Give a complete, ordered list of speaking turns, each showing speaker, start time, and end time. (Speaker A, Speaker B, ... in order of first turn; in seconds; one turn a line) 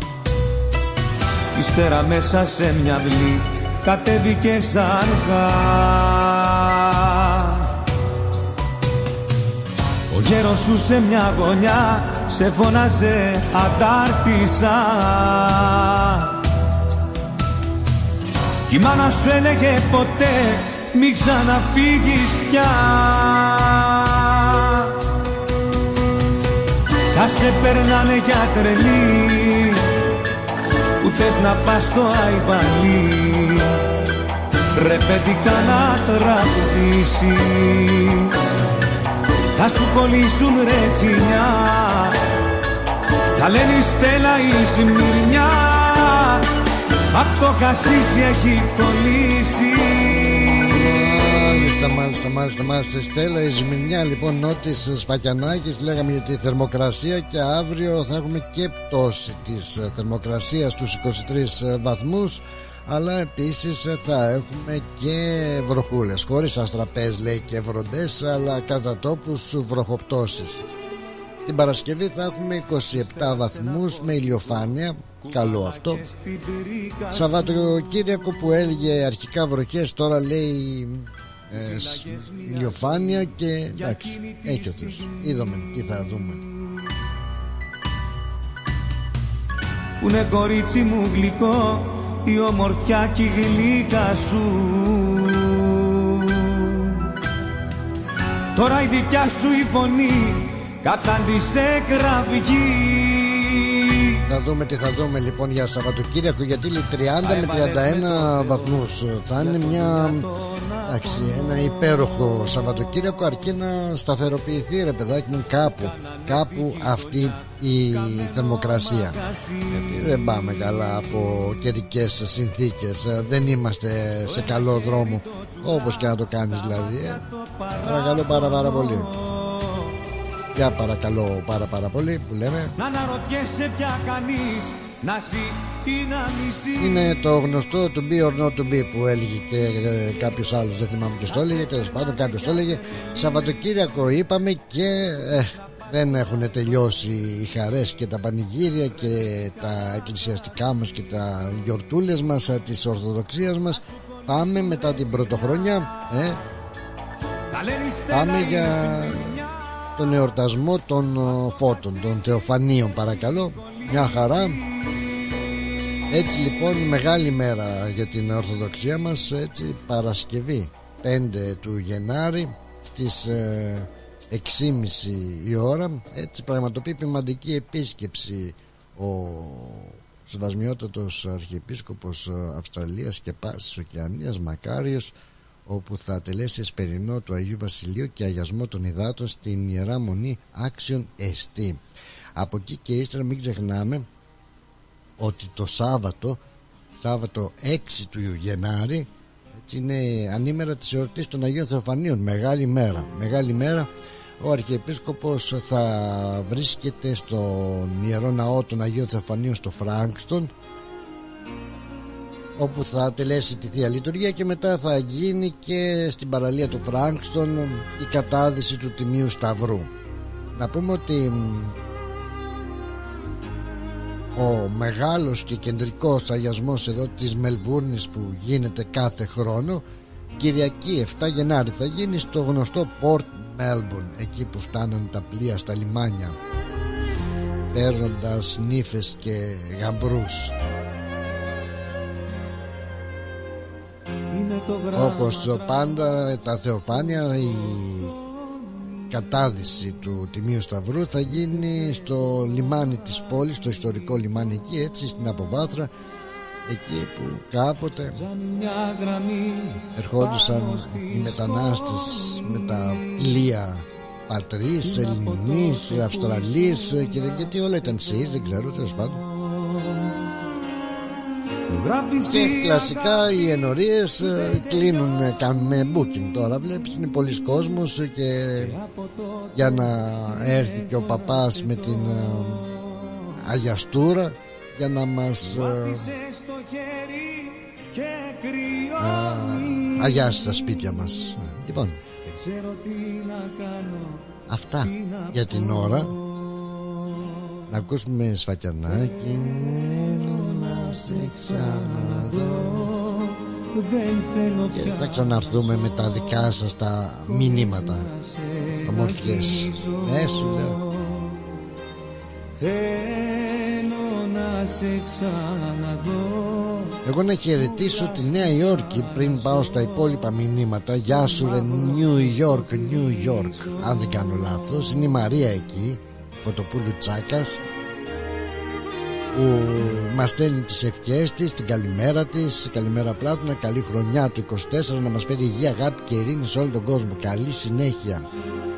Speaker A: 1.5-7.7
Speaker A: 10.1-16.4
Speaker A: 18.7-24.9
Speaker A: 27.1-29.9
Speaker A: 31.0-33.8
Speaker A: 34.7-38.3
Speaker A: 39.5-42.2
Speaker A: 43.4-46.4
Speaker A: 47.1-50.5
Speaker B: 50.5-70.6
Speaker B: 71.4-76.0
Speaker A: 72.9-74.6
Speaker A: 75.2-77.6
Speaker B: 77.1-86.4
Speaker A: 81.5-85.6
Speaker A: 90.0-97.0
Speaker A: 98.5-104.2
Speaker B: 104.2-110.3
Speaker A: 107.2-111.9
Speaker B: 110.8-119.2
Speaker A: 115.7-120.2
Speaker B: 119.7-127.2
Speaker A: 124.1-129.9
Speaker B: 127.8-129.1
Speaker B: 130.5-132.7
Speaker A: 132.8-137.0
Speaker B: 136.8-156.4
Speaker A: 157.5-159.5
Speaker B: 158.1-159.4
Speaker B: 160.0-164.6
Speaker B: 166.1-185.1
Speaker B: 185.7-191.8
Speaker B: 192.3-194.1
Speaker B: 195.2-196.4
Speaker B: 197.0-199.1
Speaker B: 199.6-210.5
Speaker B: 212.6-219.9
Speaker B: 220.5-221.8
Speaker B: 224.3-229.8
Speaker B: 230.4-236.4
Speaker B: 237.7-240.5
Speaker A: 244.3-245.8
Speaker B: 244.9-248.1
Speaker B: 249.1-255.9
Speaker B: 256.6-258.2
Speaker A: 258.1-263.2
Speaker B: 259.9-269.2
Speaker A: 264.8-267.3
Speaker A: 269.3-270.2
Speaker A: 271.7-273.1
Speaker B: 272.3-278.8
Speaker A: 278.6-283.3
Speaker B: 279.5-282.7
Speaker B: 283.4-286.1
Speaker A: 285.4-290.5
Speaker B: 289.0-292.0
Speaker A: 292.2-297.3
Speaker B: 294.5-296.1
Speaker B: 297.7-302.8
Speaker A: 300.2-305.6
Speaker B: 304.7-308.1
Speaker A: 307.3-311.6
Speaker B: 308.8-310.8
Speaker A: 312.6-317.0
Speaker B: 317.0-327.6
Speaker A: 317.6-320.2
Speaker A: 321.3-323.7
Speaker B: 329.3-338.2